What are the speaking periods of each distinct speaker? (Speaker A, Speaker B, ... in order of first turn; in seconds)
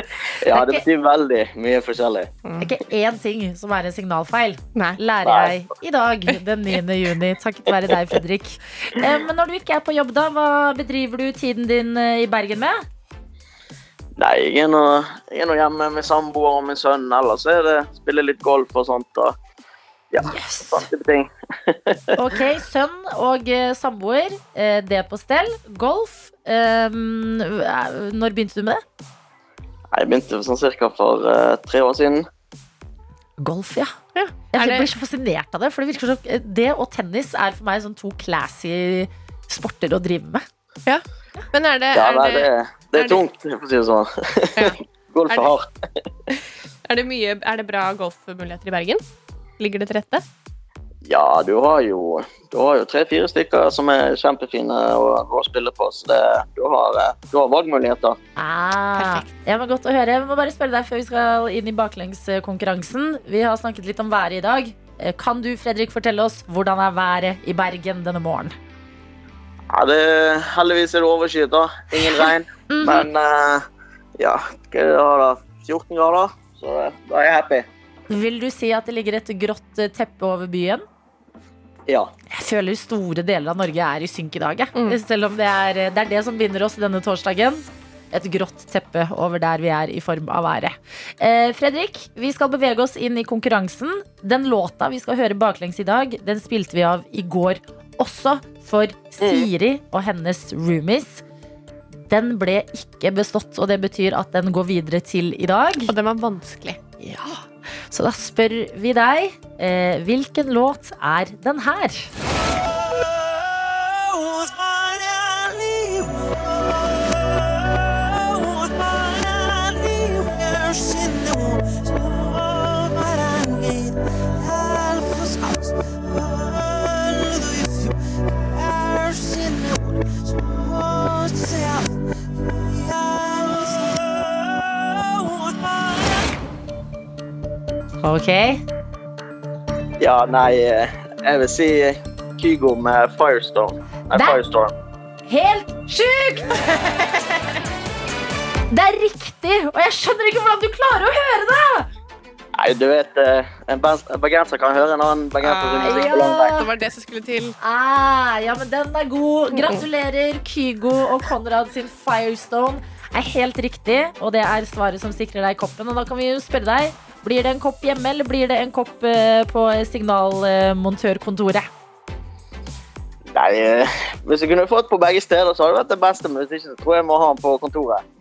Speaker A: 0.4-2.3, 5.2-5.5, 14.2-19.4, 20.1-22.0, 29.9-32.3, 42.0-45.7, 51.1-58.2, 69.7-73.7, 74.2-77.7, 140.0-144.7, 152.6-156.6, 173.3-178.1
Speaker B: 0.5-0.8, 2.6-12.8, 20.2-20.9, 22.1-28.8, 33.4-34.0, 34.5-40.5, 58.4-68.5, 72.7-73.1, 78.1-80.8, 82.3-101.2, 101.9-105.9, 107.0-112.1, 138.0-138.6, 144.1-144.4, 145.3-146.8, 148.7-151.9, 155.8-156.7, 157.6-171.7
Speaker C: 2.5-2.7, 4.8-5.0, 34.1-34.9, 40.9-43.2, 46.9-49.0, 49.6-50.2, 59.0-59.3, 105.9-106.8, 155.4-157.6, 159.6-159.8